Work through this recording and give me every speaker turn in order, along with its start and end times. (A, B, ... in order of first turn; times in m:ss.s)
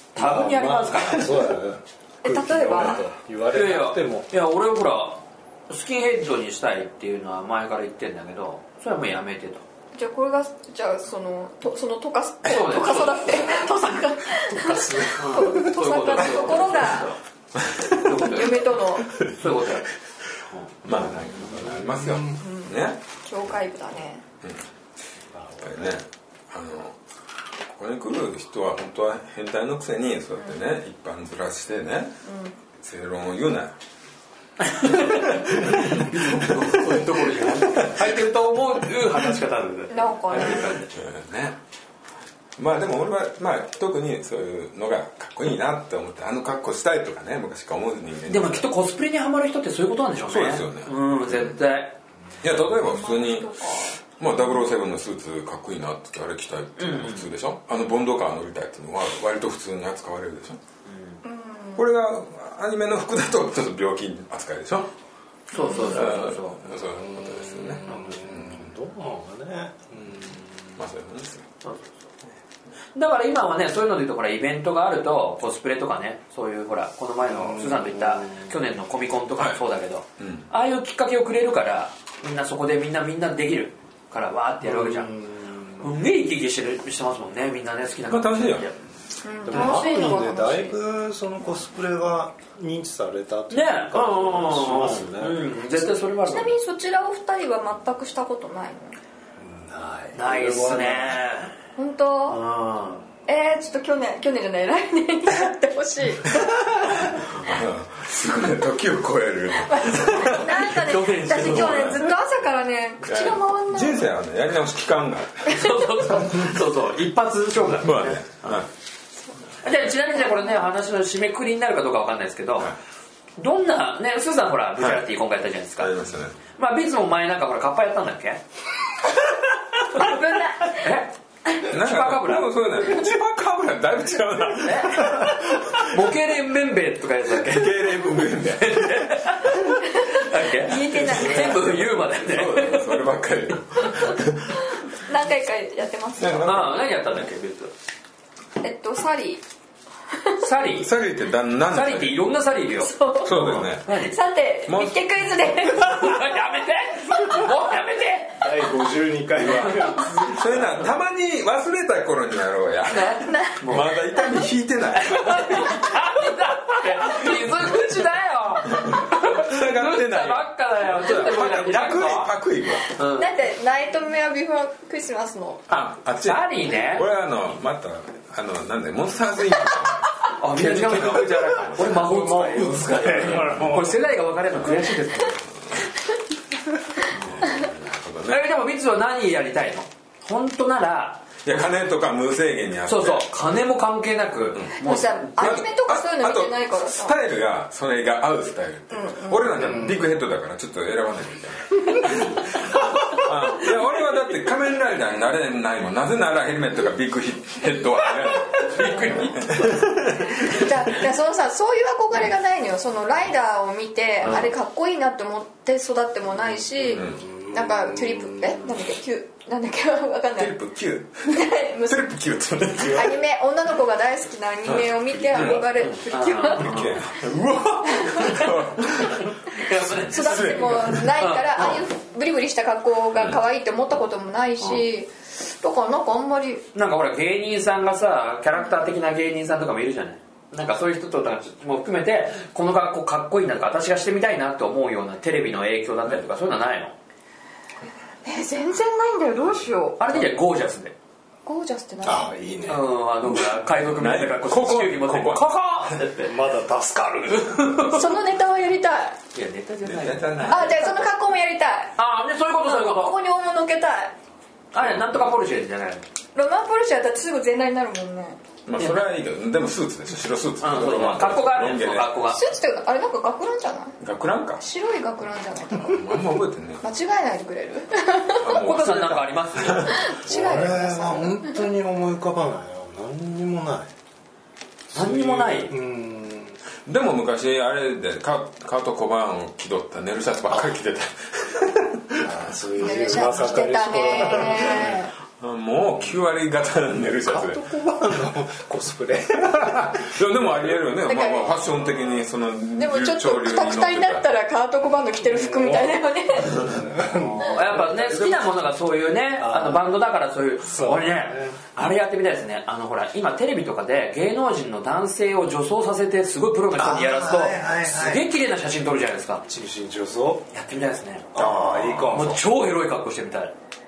0:00.2-0:01.4 A
0:00.2-0:04.3 B
0:02.2-0:03.0 C
0:03.5-0:09.6 A
0:10.0-0:17.1 C
0:12.4-0:13.2 A
0:14.6-0:15.7 B
0:15.2-0:17.2 A
0:17.6-0:18.3 D
0:17.9-0:19.9 A
0:18.0-0:19.2 C
0:20.8-0:23.0 D
0:20.9-0:22.4 B
0:22.4-0:24.2 C
0:25.3-0:25.7 B
0:25.6-0:27.0 D
0:27.7-0:32.2 D
0:32.2-0:32.6 C
0:32.8-0:33.7 D
0:34.6-0:41.0 A
0:34.9-0:38.1 D
0:39.9-0:40.8 C
0:40.6-0:41.6 D
0:42.6-0:48.7 D
0:48.3-0:52.0 A
0:50.3-0:51.6 D
0:52.4-1:00.6 D
0:52.9-0:54.0 C
0:56.8-0:57.3 A
1:00.8-1:01.2 A
1:01.2-1:01.8 C
1:01.8-1:04.9 D
1:05.5-1:06.6 A
1:05.5-1:06.0 C
1:05.7-1:08.7 D
1:06.8-1:10.8 B
1:07.9-1:08.2 A
1:10.8-1:11.5 D
1:11.6-1:12.1 A
1:13.0-1:25.1 A
1:17.3-1:18.4 B
1:20.2-1:20.5 D
1:24.6-1:25.9 B
1:25.8-1:28.8 A
1:28.1-1:28.7 D
1:29.2-1:30.8 C
1:29.4-1:35.5 B
1:29.5-1:29.8 D
1:33.5-1:36.6 A
1:35.8-1:39.0 C
1:39.4-1:41.2 B
1:40.1-1:41.5 A
1:41.8-1:42.4 C
1:42.3-1:43.1 A
1:43.3-1:47.2 C
1:47.1-1:52.1 D
1:49.6-1:54.1 C
1:50.5-1:52.1 A
1:53.0-1:55.9 D
1:55.5-1:58.6 A
1:57.8-1:58.7 D
1:59.6-2:02.7 A
2:03.4-2:05.9 A
2:05.8-2:06.4 D
2:06.6-2:08.4 A
2:09.8-2:12.5 A
2:10.0-2:10.8 C
2:11.7-2:16.1 D
2:14.6-2:23.0 A
2:17.4-2:19.5 D
2:20.0-2:21.8 C
2:20.8-2:24.8 D
2:24.8-2:26.7 C
2:26.2-2:26.8 D
2:26.4-2:27.7 A
2:28.6-2:29.4 C
2:30.1-2:30.4 C
2:30.4-2:30.9 A
2:30.8-2:32.2 D
2:31.7-2:34.2 A
2:32.8-2:33.3 C
2:33.2-2:33.9 D
2:33.9-2:36.4 C
2:34.7-2:35.2 D
2:35.8-2:38.4 A
2:38.4-2:40.7 B
2:39.4-2:45.8 D
2:43.0-2:43.9 A
2:43.0-2:43.6 C
2:45.0-2:52.3 A
2:48.7-2:52.9 D
2:52.9-2:53.3 A
2:53.0-2:55.7 C
2:55.7-2:57.1 A
2:55.7-3:02.1 D
3:00.3-3:05.4 A
3:02.0-3:04.0 B
3:03.1-3:03.7 D
3:07.1-3:08.4 D
3:08.3-3:11.3 A
3:11.4-3:13.3 D
3:12.9-3:15.6 A
3:14.6-3:30.7 D
3:14.8-3:17.2 C
3:18.9-3:19.7 C
3:28.1-3:29.9 A
3:30.3-3:40.6 C
3:34.2-3:34.5 D
3:36.8-3:38.7 B
3:36.9-3:37.2 D
3:40.4-3:43.2 D
3:41.3-3:42.2 C
3:42.8-3:46.8 C
3:44.6-3:45.9 D
3:45.8-3:47.0 A
3:46.6-3:51.2 D
3:48.0-3:48.5 C
3:49.5-3:51.8 A
3:50.0-3:56.7 C
3:56.8-4:07.0 A
4:08.2-4:10.0 C
4:10.0-4:10.9 A
4:11.4-4:12.3 C
4:12.0-4:12.9 B
4:12.7-4:16.4 A
4:13.8-4:15.5 D
4:16.2-4:18.0 B
4:17.5-4:18.0 A
4:17.9-4:19.2 C
4:19.3-4:21.1 A
4:19.8-4:20.8 D
4:20.5-4:22.0 C
4:22.0-4:23.2 A
4:22.6-4:24.2 C
4:24.7-4:26.0 A
4:26.4-4:28.4 C
4:28.7-4:32.2 D
4:28.8-4:29.0 A
4:30.6-4:32.4 A
4:32.3-4:34.0 C
4:34.0-4:34.6 D
4:34.6-4:36.2 C
4:35.8-4:36.8 D
4:36.8-4:38.6 C
4:38.4-4:40.6 D
4:38.4-4:40.0 A
4:39.8-4:41.6 C
4:40.3-4:43.9 B
4:44.9-4:46.6 B
4:44.9-4:45.8 A
4:46.9-4:52.3 D
4:52.2-4:55.0 B
4:52.8-4:55.1 C
4:54.6-4:57.6 D
4:57.2-5:00.1 B
4:59.4-5:04.3 D
5:01.1-5:01.6 C
5:02.8-5:06.8 C
5:05.2-5:08.1 B
5:07.4-5:19.4 A
5:08.1-5:08.4 D
5:09.4-5:09.9 B
5:10.6-5:11.6 B
5:16.8-5:18.3 B
5:19.5-5:20.5 B
5:20.5-5:23.5 A
5:21.3-5:22.4 B